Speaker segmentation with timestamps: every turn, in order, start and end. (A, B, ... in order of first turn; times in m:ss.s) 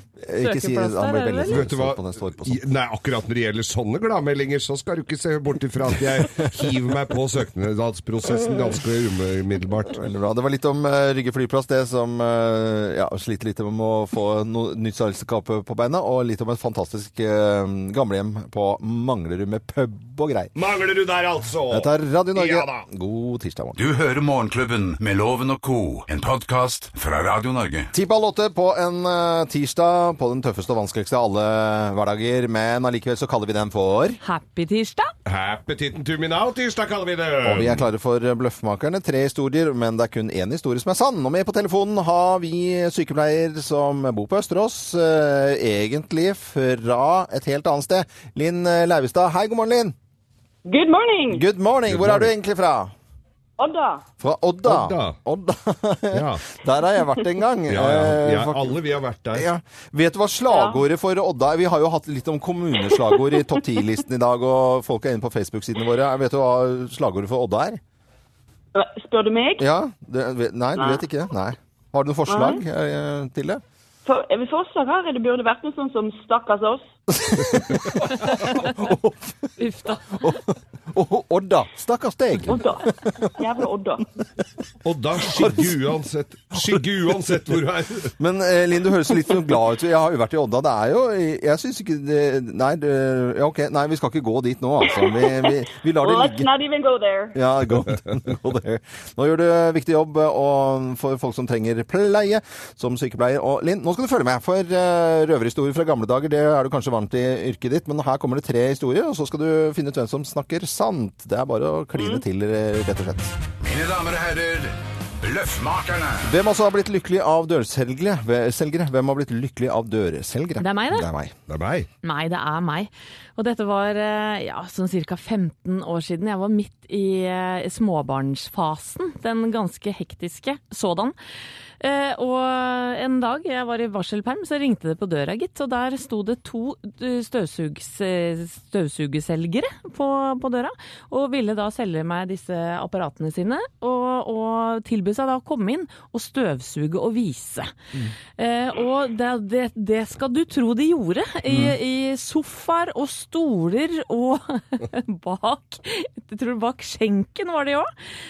0:00.2-0:02.6 A
0:00.4-0:01.6 B
0:01.5-0:10.0 C
0:09.8-0:20.5 A
0:20.5-0:22.8 C
0:21.7-0:23.8 A
0:23.8-0:27.9 D
0:27.9-0:34.2 A
0:34.2-0:35.1 B
0:35.2-0:37.8 C
0:37.4-0:49.9 A
0:50.6-0:51.4 E
0:51.3-0:52.9 A
0:51.9-0:52.3 C
0:53.6-0:54.0 E
0:54.2-0:58.8 A
0:54.6-0:55.2 C
0:56.1-0:56.4 C
0:57.7-0:59.5 C
0:59.3-1:07.8 A
1:00.5-1:00.8 E
1:08.7-1:09.6 E
1:09.6-1:13.6 A
1:10.8-1:11.0 E
1:12.3-1:12.6 E
1:14.0-1:16.9 E
1:17.1-1:19.5 A
1:18.3-1:18.6 B
1:19.6-1:20.4 B
1:20.1-1:23.3 A
1:22.4-1:24.0 E
1:24.8-1:28.1 C
1:25.2-1:25.8 A
1:28.2-1:36.5 A
1:34.9-1:37.4 E
1:37.3-1:53.3 A
1:53.6-1:56.3 D
1:56.2-2:01.3 A
2:00.6-2:01.1 B
2:01.5-2:01.9 C
2:02.0-2:11.1 B
2:11.8-2:27.7 B
2:28.4-2:37.9 B